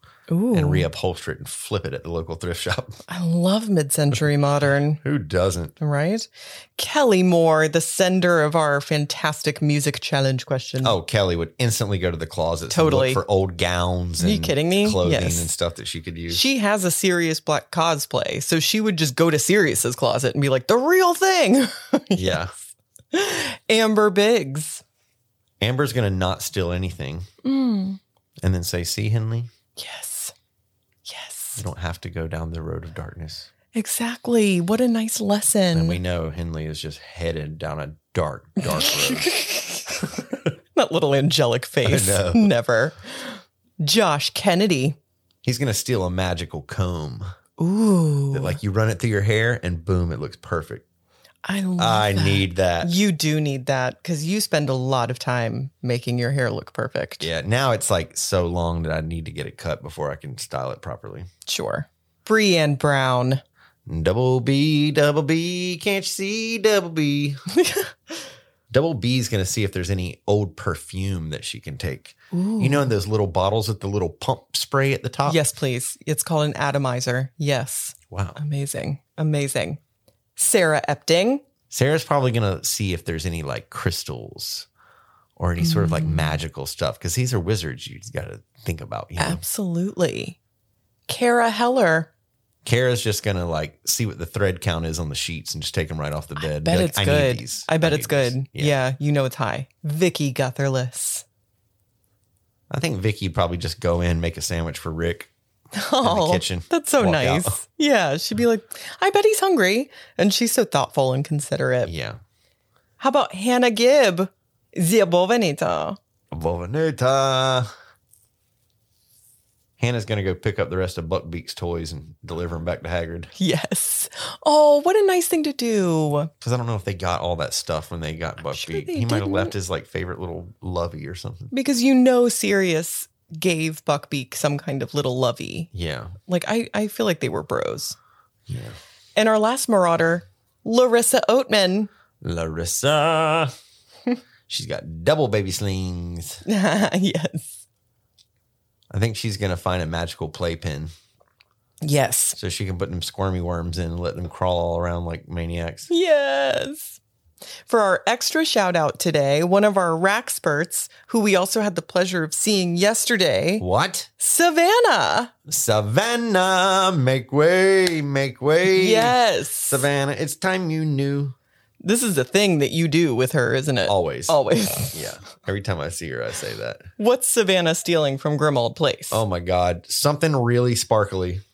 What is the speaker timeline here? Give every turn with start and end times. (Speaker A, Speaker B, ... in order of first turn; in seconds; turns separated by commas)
Speaker A: 0.3-0.9, Speaker B: 0.5-3.0, Speaker A: 3.1-5.0, Speaker B: 5.0-5.7, Speaker A: 5.8-10.9, Speaker B: 10.8-16.4, Speaker A: 12.7-13.2, Speaker A: 14.2-15.5, Speaker A: 16.3-22.6, Speaker B: 22.1-22.5, Speaker A: 23.1-24.8, Speaker B: 25.6-27.3, Speaker A: 27.4-28.0, Speaker B: 28.4-29.5, Speaker A: 29.8-30.3, Speaker A: 31.1-31.6, Speaker B: 31.6-33.5, Speaker A: 33.7-36.0, Speaker B: 35.7-39.3, Speaker A: 38.6-40.2, Speaker B: 40.1-40.5, Speaker A: 40.7-45.0, Speaker B: 41.8-42.5, Speaker B: 45.4-47.3, Speaker A: 47.6-48.6, Speaker B: 48.3-50.8, Speaker A: 51.4-57.3, Speaker B: 51.8-52.9, Speaker B: 57.2-61.3, Speaker A: 61.5-63.4, Speaker B: 63.9-67.4, Speaker A: 67.5-67.9, Speaker B: 68.7-75.4, Speaker A: 72.3-72.9, Speaker A: 75.3-79.8, Speaker B: 78.1-78.4, Speaker A: 80.4-81.4, Speaker B: 81.7-84.7, Speaker B: 85.4-89.4, Speaker A: 85.6-86.3, Speaker A: 89.2-90.4, Speaker A: 91.1-92.1, Speaker B: 92.6-98.8, Speaker A: 96.4-101.2, Speaker B: 102.7-105.3, Speaker A: 105.7-111.9, Speaker B: 106.0-107.6, Speaker B: 111.8-112.2, Speaker A: 113.0-116.0, Speaker B: 116.3-117.7, Speaker B: 119.8-123.3, Speaker A: 123.4-126.3, Speaker B: 126.4-131.5, Speaker A: 128.5-129.5, Speaker A: 131.5-135.7, Speaker B: 135.7-136.1, Speaker A: 136.3-138.0, Speaker B: 138.5-138.8, Speaker A: 139.2-141.9, Speaker B: 142.2-143.5, Speaker B: 144.5-146.4, Speaker A: 146.4-147.6, Speaker B: 148.9-150.9, Speaker A: 151.8-152.4, Speaker B: 152.4-155.9, Speaker A: 155.9-157.0, Speaker A: 157.7-163.6, Speaker B: 163.6-164.1, Speaker A: 164.2-165.3, Speaker B: 165.5-169.1, Speaker A: 168.7-169.9, Speaker B: 169.7-171.3, Speaker A: 171.8-175.1, Speaker B: 173.9-174.4, Speaker B: 174.9-176.9, Speaker A: 177.0-179.2, Speaker B: 179.1-181.4